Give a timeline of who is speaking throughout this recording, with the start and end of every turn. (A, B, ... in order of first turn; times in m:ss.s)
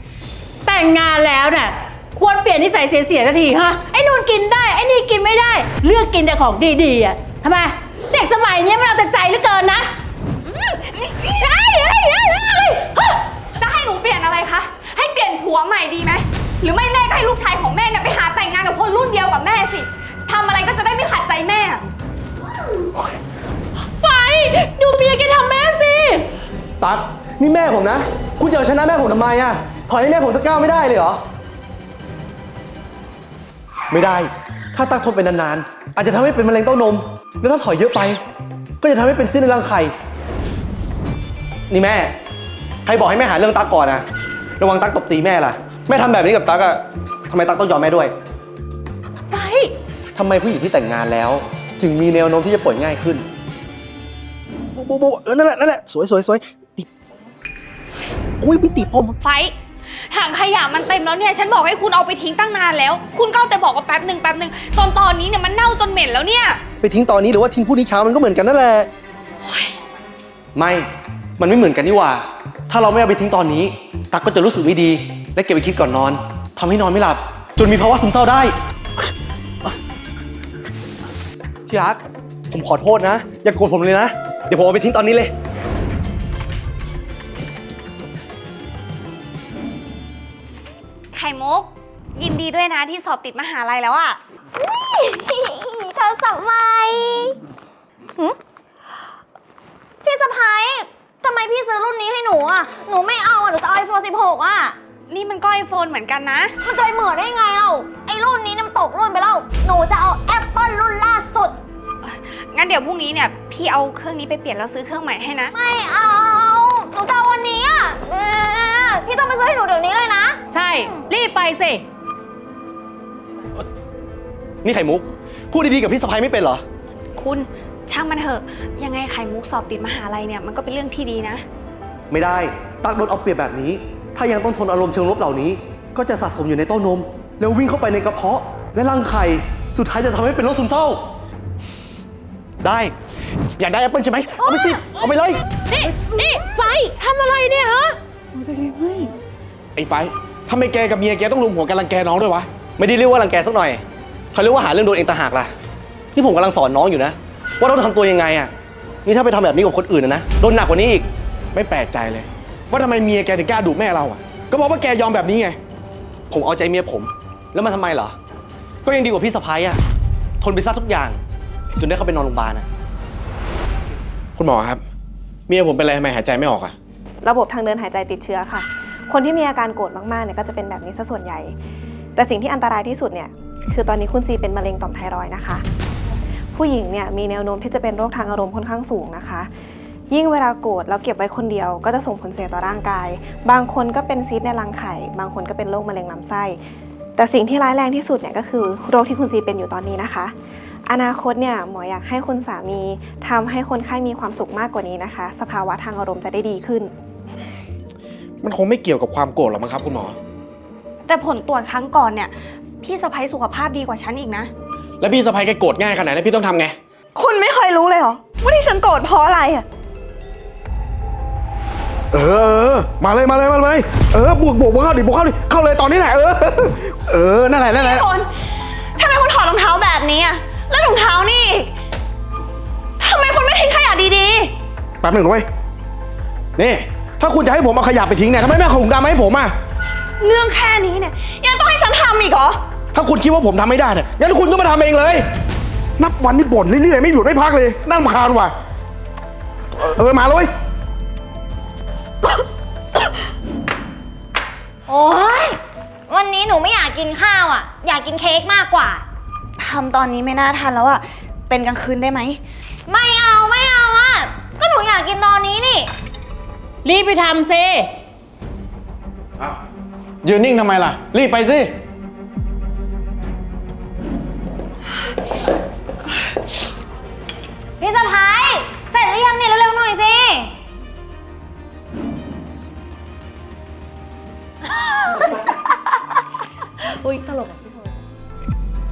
0:00.6-0:09.9 A
0:11.2-0:12.9 A
0:13.1-0:21.9 B
0:23.9-0:26.3 A
0:26.8-0:31.2 C
0:33.9-0:38.2 C
0:38.8-0:39.9 C
0:41.7-0:42.2 C
0:42.8-0:44.0 C
0:44.6-0:48.1 C
0:49.3-0:49.7 A
0:50.1-0:53.2 C
0:54.8-0:56.9 C
0:58.4-0:59.1 C
0:59.2-0:59.5 B
1:00.1-1:06.6 B
1:06.8-1:08.9 C
1:09.4-1:09.7 B
1:10.5-1:18.6 C
1:21.7-1:25.3 C
1:31.1-1:34.2 B
1:34.6-1:37.4 D
1:40.0-1:44.8 D
1:45.1-1:46.6 B
1:46.6-1:51.6 D
1:52.0-1:55.5 B
1:55.5-2:00.4 D
2:00.5-2:01.8 A
2:04.6-2:06.6 C
2:07.2-2:11.4 B
2:12.1-2:21.0 C
2:22.6-2:22.9 C
2:23.6-2:25.4 C
2:25.6-2:29.1 A
2:29.8-2:32.5 E
2:32.8-2:33.8 C
2:34.3-2:35.5 C
2:36.1-2:38.5 C
2:39.0-2:41.1 C
2:41.5-2:45.6 E
2:46.3-2:48.2 C
2:48.8-2:49.8 C
2:50.4-2:51.2 C
2:51.8-2:52.6 C
2:54.4-2:54.8 E
2:55.5-2:56.7 E
2:57.2-3:01.5 F
3:02.2-3:05.6 F
3:06.5-3:09.5 F
3:10.1-3:16.6 F
3:17.2-3:20.3 F
3:20.8-3:26.9 F
3:28.4-3:30.2 E
3:31.1-3:34.5 B
3:35.0-3:36.8 E
3:37.1-3:39.6 G
3:42.1-3:48.0 E
3:47.7-3:51.7 G
3:53.0-3:54.5 G
3:55.0-3:55.4 E
3:56.6-3:59.5 E
4:00.2-4:02.6 G
4:02.9-4:05.2 E
4:06.0-4:08.5 E
4:09.7-4:10.5 E
4:14.9-4:15.6 D
4:16.1-4:19.0 D
4:19.6-4:22.4 G
4:22.9-4:25.9 D
4:26.8-4:27.9 A
4:30.2-4:31.7 E
4:37.8-4:40.5 D
4:46.8-4:47.7 D